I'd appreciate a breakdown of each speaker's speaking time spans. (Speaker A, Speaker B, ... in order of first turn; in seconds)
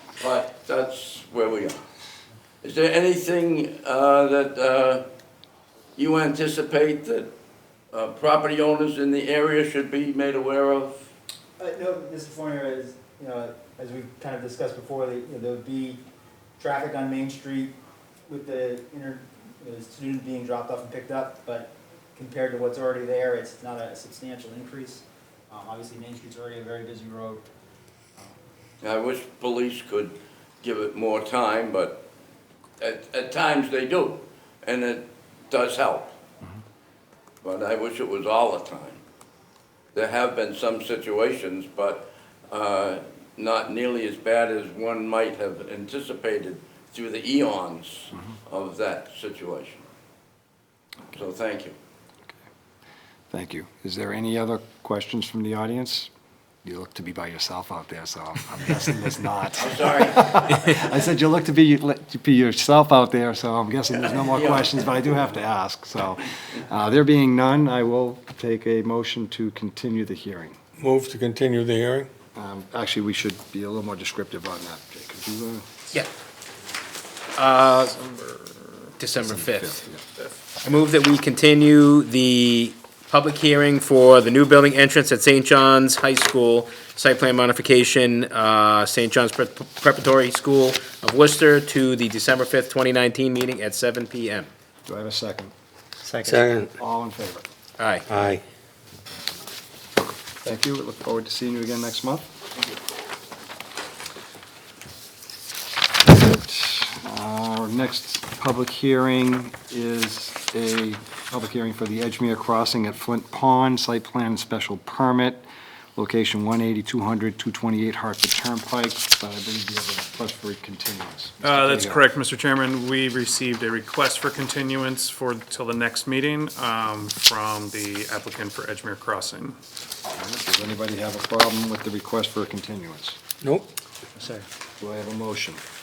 Speaker A: 0.2-1.8, 2.6-5.1, 6.0-7.3, 7.9-11.1, 28.8-32.0, 32.8-36.2, 37.4-39.0, 39.9-49.9, 51.1-51.8, 59.6-60.7, 64.1-65.2
Speaker B: 11.6-16.0, 16.6-17.8, 18.3-27.5, 96.1-96.3
Speaker C: 53.3-56.1, 56.6-70.6, 72.3-75.7, 79.2-80.0, 94.9-95.5, 96.7-97.5, 100.4-102.3, 106.1-122.0, 130.1-133.2, 134.8-135.6
Speaker D: 70.8-72.1, 96.2-96.7, 98.1-98.4, 133.4-133.7
Speaker E: 77.4-78.0, 79.0-79.8, 80.6-94.5, 97.8-98.0
Speaker F: 77.9-78.9, 121.4-129.6